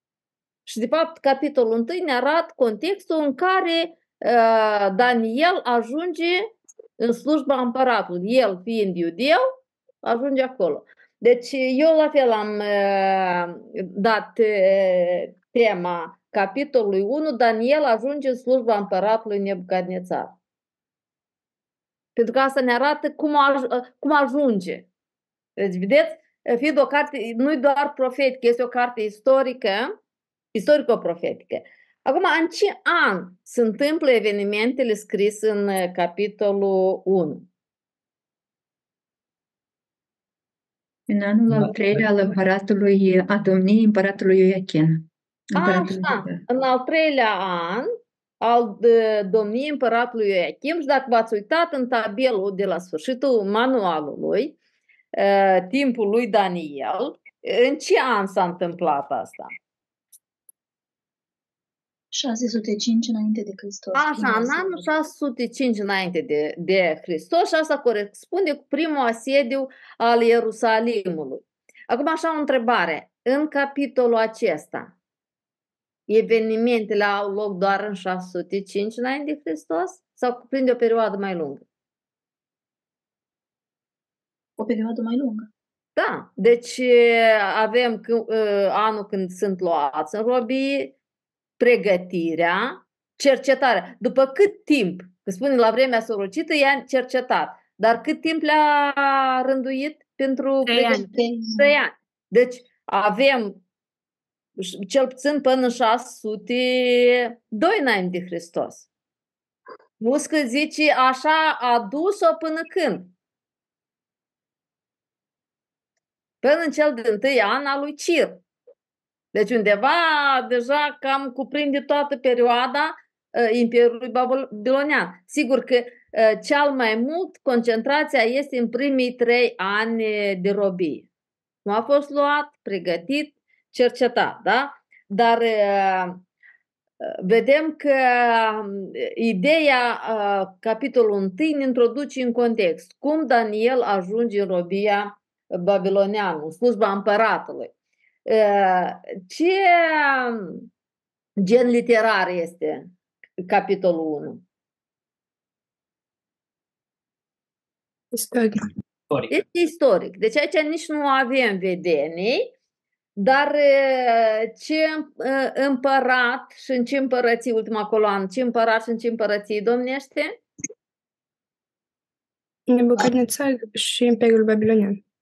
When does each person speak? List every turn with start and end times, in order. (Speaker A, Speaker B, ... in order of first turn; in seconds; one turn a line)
Speaker A: 0.7-6.5
Speaker A: 7.0-9.4
Speaker A: 10.0-20.3
Speaker A: 22.2-24.9
Speaker A: 25.6-29.9
Speaker A: 30.5-37.5
Speaker B: 41.1-46.4
Speaker A: 45.5-54.6
Speaker A: 55.1-59.5
Speaker C: 62.1-64.9
Speaker A: 63.9-74.9
Speaker A: 76.1-81.6
Speaker C: 84.6-85.5
Speaker A: 86.0-90.9
Speaker A: 91.6-103.6
Speaker A: 104.6-108.9
Speaker A: 110.0-113.1
Speaker A: 116.4-118.4
Speaker A: 119.3-131.1
Speaker A: 131.7-136.2
Speaker A: 137.0-147.7
Speaker A: 148.3-150.7
Speaker A: 151.4-152.9
Speaker A: 153.5-154.4
Speaker D: 158.1-158.7
Speaker A: 159.3-162.5
Speaker A: 163.2-170.4
Speaker D: 172.7-175.0